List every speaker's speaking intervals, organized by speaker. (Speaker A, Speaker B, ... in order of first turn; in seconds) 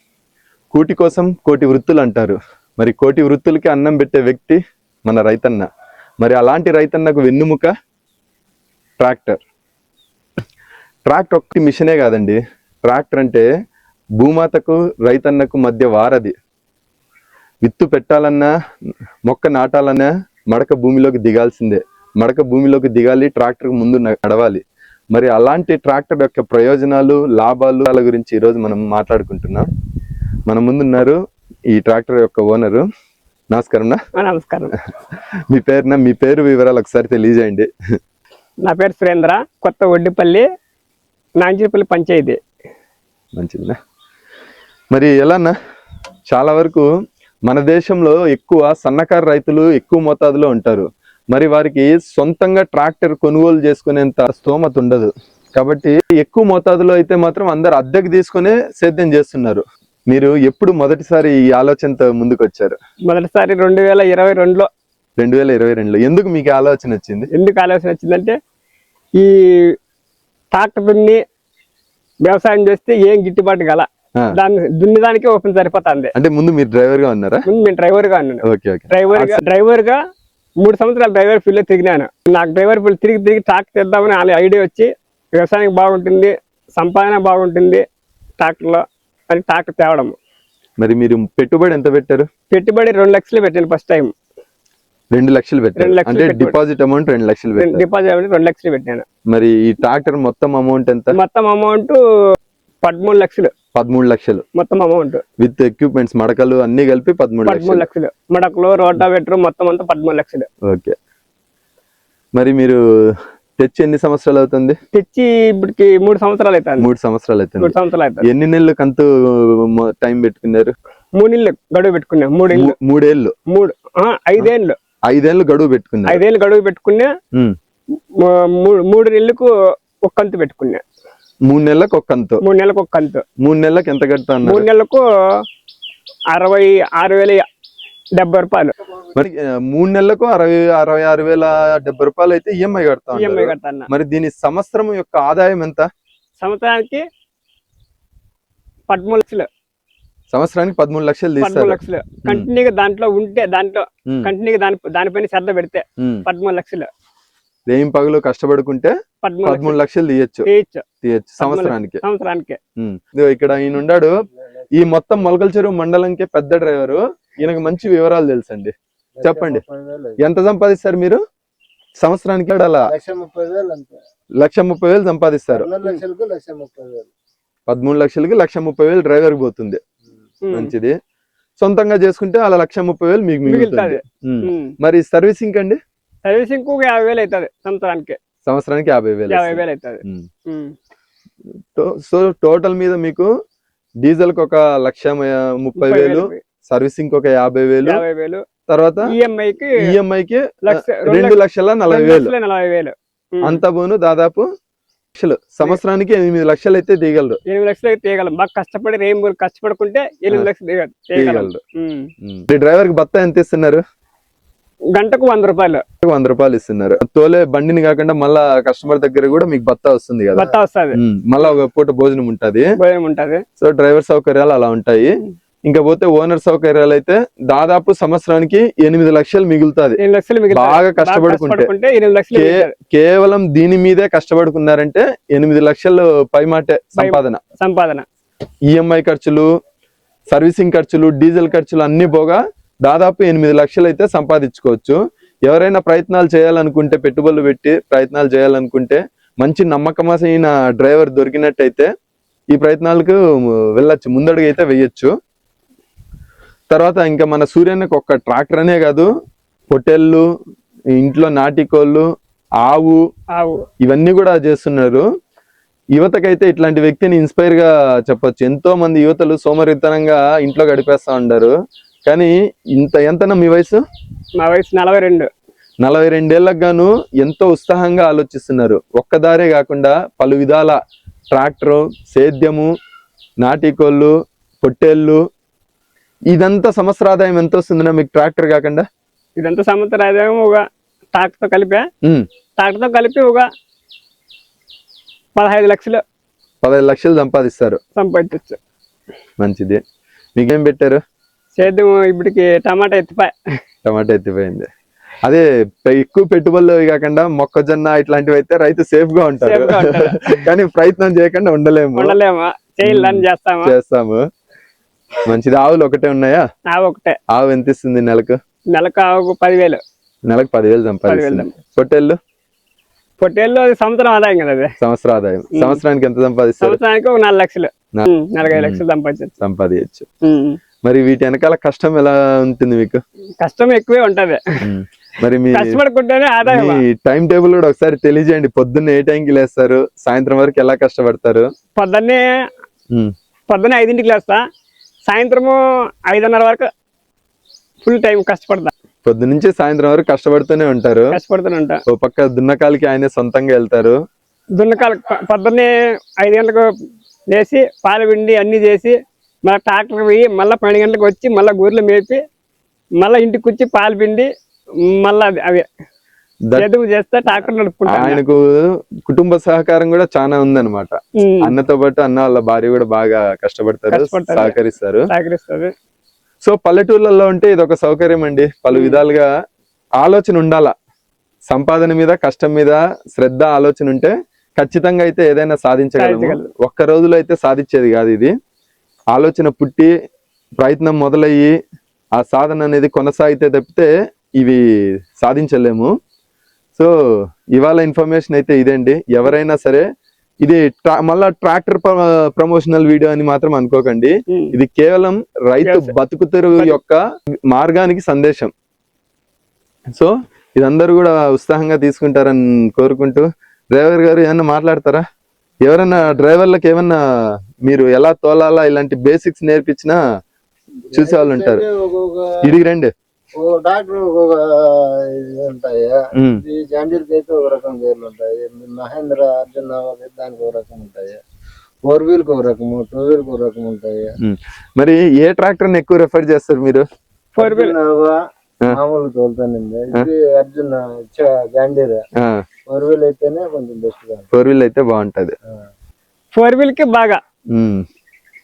Speaker A: 0.7-5.7, 6.2-7.7, 9.0-9.4, 11.1-13.5, 14.2-16.4, 17.6-18.5, 19.3-24.6, 25.1-29.7, 30.5-32.9, 33.5-34.0, 35.5-37.7, 43.4-43.8, 44.9-45.5, 46.3-46.9, 47.5-62.8, 65.2-67.3, 76.2-77.5, 78.4-79.4, 90.8-92.3, 95.1-97.8, 99.3-101.2, 103.8-104.5, 105.4-107.9, 110.7-111.0, 112.4-114.8, 116.8-120.7, 122.5-123.3, 125.1-126.2, 131.5-132.4, 133.4-134.7, 139.2-145.9, 150.3-152.5, 156.0-156.2, 157.7-160.5, 161.0-162.0, 162.8-164.2, 164.7-169.6, 170.2-171.2, 172.0-172.9, 174.4-175.7, 177.7-179.8, 180.5-180.9, 181.6-185.8, 188.5-190.3, 191.8-193.3, 194.0-198.0, 198.7-199.1, 199.8-202.3, 203.4-204.5, 205.2-207.4, 211.2-211.6, 212.2-213.8, 216.0-222.7, 223.6-225.1, 225.7-230.0, 230.5-231.7, 232.3-237.4, 238.7-239.5, 240.3-251.9, 252.5-255.1, 256.7-259.1, 259.7-260.2, 261.0-262.1, 262.6-263.0, 263.8-265.1, 266.0-271.5, 272.1-273.8, 275.8-280.8, 281.3-282.7, 283.4-285.2, 286.3-288.9, 296.6-297.8, 299.4-299.8, 300.4-301.0, 303.9-304.7, 305.2-312.2, 312.8-314.2, 315.3-316.5, 317.3-318.4, 320.3-322.2, 324.8-326.8, 328.0-328.8, 329.4-330.1, 330.9-333.0, 334.6-335.8, 336.4-341.5, 349.1-351.2, 351.9-354.0, 367.3-375.1, 376.4-379.3, 380.0-380.7, 381.5-388.3, 389.1-389.9, 390.6-391.5, 392.2-394.6, 395.2-395.9, 397.5-399.9, 400.4-408.5, 410.0-415.0, 415.6-417.0, 417.6-420.0, 420.9-421.6, 422.4-422.9, 426.1-426.4, 434.2-436.8, 444.3-445.4, 447.5-447.9
Speaker B: 34.2-34.8, 38.6-40.5, 41.4-42.4, 63.1-64.7, 67.3-68.4, 69.2-69.8, 70.5-71.2, 72.2-76.1, 77.5-80.0, 80.6-87.8, 88.4-90.2, 92.5-94.1, 95.8-96.6, 97.5-99.1, 101.2-102.0, 102.8-103.5, 104.5-105.2, 107.5-110.5, 114.9-116.9, 117.6-118.2, 121.2-122.8, 123.5-124.8, 126.1-127.1, 128.2-129.5, 130.1-130.8, 132.4-133.2, 134.4-135.4, 136.3-137.5, 138.2-138.8, 143.1-143.9, 146.4-147.1, 148.9-149.5, 151.4-156.9, 159.2-159.8, 160.5-160.8, 161.4-162.6, 180.4-180.7, 183.5-184.8, 186.2-188.2, 189.3-190.8, 195.8-196.4, 197.8-198.4, 199.1-199.8, 200.7-203.6, 207.5-212.1, 214.9-215.8, 220.3-221.0, 222.8-223.4, 230.0-232.7, 237.0-238.1, 263.3-263.7, 274.4-275.3, 289.4-291.9, 292.6-293.5, 295.4-296.0, 298.0-298.6, 301.6-303.4, 309.4-310.4, 312.0-313.7, 316.7-317.2, 318.7-319.8, 321.1-321.5, 323.2-324.7, 325.5-325.8, 326.6-329.3, 330.2-330.6, 333.4-334.6, 335.5-336.8, 341.8-342.3, 343.5-344.4, 345.1-346.7, 347.8-348.7, 351.1-351.8, 354.6-356.6, 357.3-358.9, 359.5-362.2, 363.0-364.3, 364.9-365.7, 366.6-368.2, 371.2-371.5, 373.9-374.6, 375.1-375.7, 378.7-379.0, 386.0-386.5, 405.6-405.9, 437.4-437.8, 446.3-447.2
Speaker C: 169.2-170.2, 172.9-174.0, 175.5-177.1, 420.9-422.5, 423.4-431.2, 431.9-434.1, 437.4-442.0, 442.7-444.3